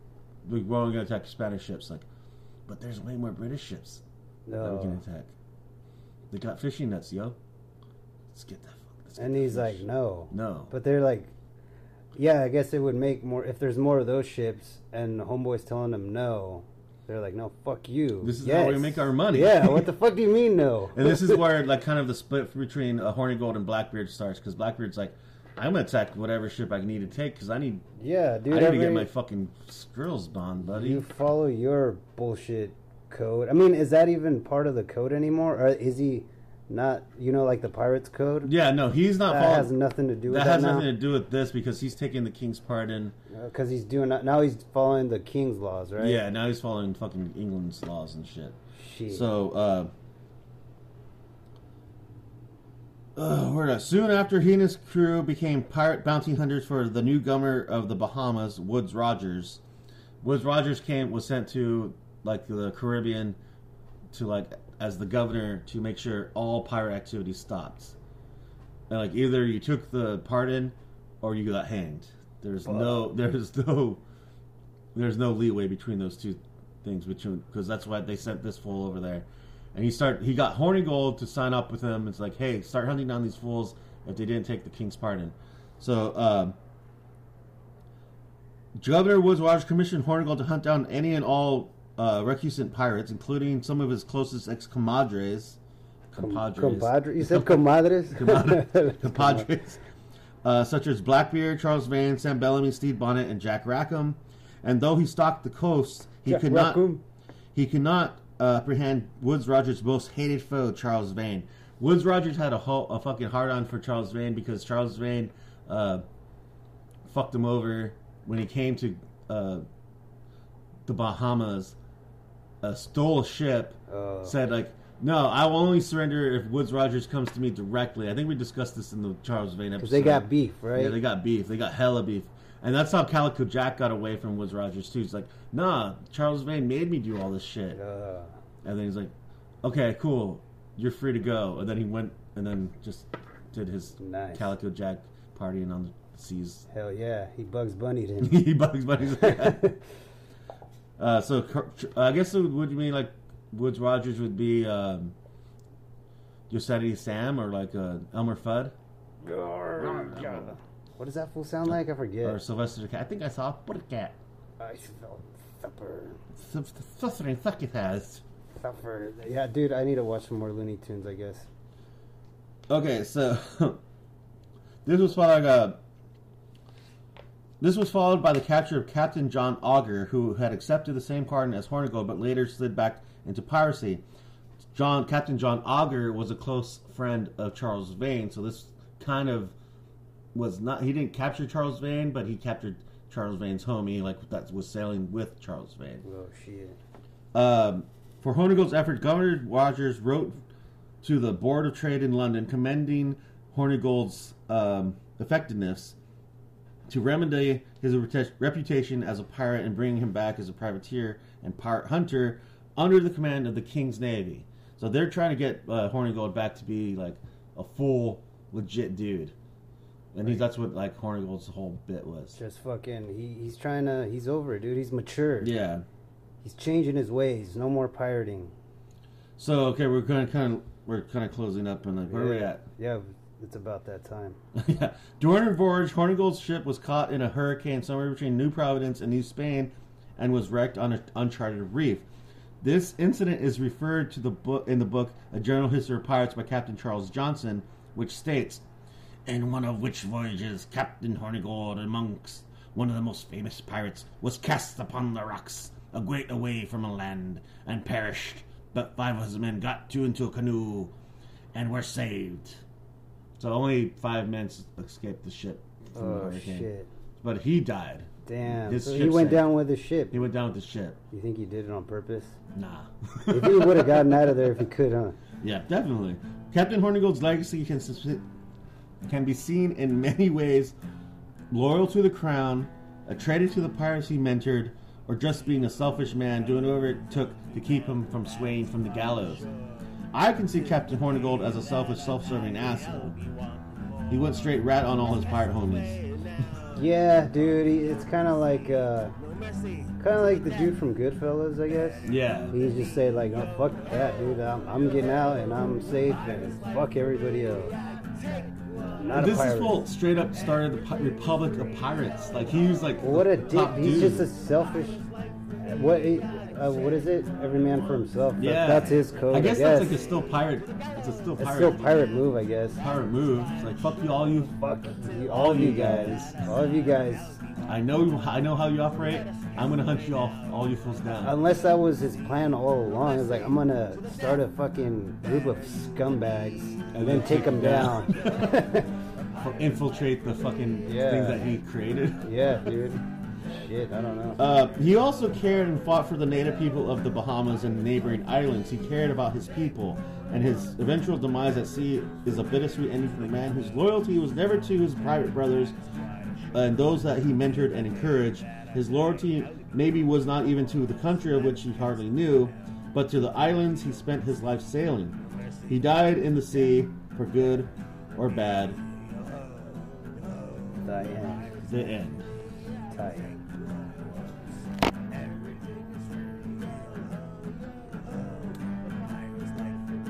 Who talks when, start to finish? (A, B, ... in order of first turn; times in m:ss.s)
0:00.4-0:02.1 A
0:02.7-0:04.0 A
0:04.5-0:05.0 B
0:04.6-0:05.3 A
0:06.3-0:07.4 A
0:08.3-0:10.7 A
0:09.2-0:11.3 B
0:12.2-0:21.4 B
0:18.2-0:19.9 A
0:20.9-0:27.8 A
0:28.0-0:29.1 B
0:28.5-0:31.0 A
0:30.6-0:38.5 B
0:38.4-0:39.7 A
0:39.3-0:40.9 B
0:40.3-0:43.2 A
0:43.3-0:46.2 B
0:46.0-0:48.6 A
0:48.8-0:49.3 B
0:49.1-0:49.9 A
0:53.2-0:59.6 A
1:00.2-1:03.4 A
1:04.1-1:08.0 A
1:08.9-1:14.0 A
1:12.6-1:13.1 B
1:15.0-1:26.6 A
1:28.8-1:35.6 A
1:36.1-1:39.8 A
1:36.2-1:39.5 B
1:40.4-1:46.9 A
1:46.3-1:47.0 B
1:47.5-1:56.0 A
1:57.0-1:59.6 A
2:00.9-2:01.8 A
2:02.6-2:17.8 A
2:03.9-2:04.4 B
2:09.8-2:11.0 B
2:17.7-2:18.3 B
2:18.6-2:19.1 A
2:19.6-2:26.7 A
2:24.0-2:24.5 B
2:26.7-2:28.4 B
2:28.2-2:29.8 A
2:29.1-2:29.8 B
2:31.0-2:35.2 A
2:36.5-2:38.7 A
2:39.2-2:42.4 B
2:39.8-2:40.6 A
2:41.7-2:44.2 A
2:44.6-2:46.2 B
2:46.4-2:48.2 A
2:48.6-2:51.5 B
2:52.7-2:53.8 A
2:54.8-2:55.8 A
2:57.6-3:04.0 A
3:04.7-3:09.5 A
3:10.3-3:16.0 A
3:16.0-3:16.8 B
3:17.3-3:20.4 A
3:21.0-3:26.0 A
3:26.9-3:39.4 A
3:40.1-3:42.4 A
3:42.4-3:45.6 B
3:45.4-3:45.8 A
3:46.4-3:48.5 B
3:49.4-3:52.6 A
3:52.1-3:54.4 B
3:54.6-4:02.1 A
4:02.6-4:08.6 A
4:09.3-4:20.9 A
4:21.5-4:22.6 A
4:23.4-4:29.5 A
4:26.0-4:26.9 B
4:28.3-4:30.2 B
4:30.1-4:31.0 A
4:31.1-4:32.4 B
4:32.5-4:34.4 A
4:33.3-4:35.2 B
4:35.4-4:38.2 A
4:39.1-4:40.8 A
4:41.5-4:49.5 A
4:50.1-4:53.2 A
4:54.1-4:56.0 A
4:56.7-4:59.2 B
5:00.0-5:07.8 B
5:02.0-5:02.6 A
5:08.8-5:09.8 B
5:09.1-5:14.3 A
5:13.0-5:15.0 B
5:15.6-5:20.0 B
5:18.4-5:21.8 A
5:21.4-5:22.8 B
5:22.8-5:24.5 A
5:24.5-5:27.4 B
5:25.3-5:26.3 A
5:27.7-5:31.4 A
5:31.2-5:38.9 B
5:36.9-5:38.7 A
5:39.4-5:42.3 A
5:40.9-5:41.5 B
5:42.2-5:44.4 B
5:44.4-5:55.8 A
5:56.5-6:05.2 A
6:05.7-6:08.8 A
6:10.8-6:11.6 B
6:11.6-6:12.3 A
6:12.9-6:13.4 B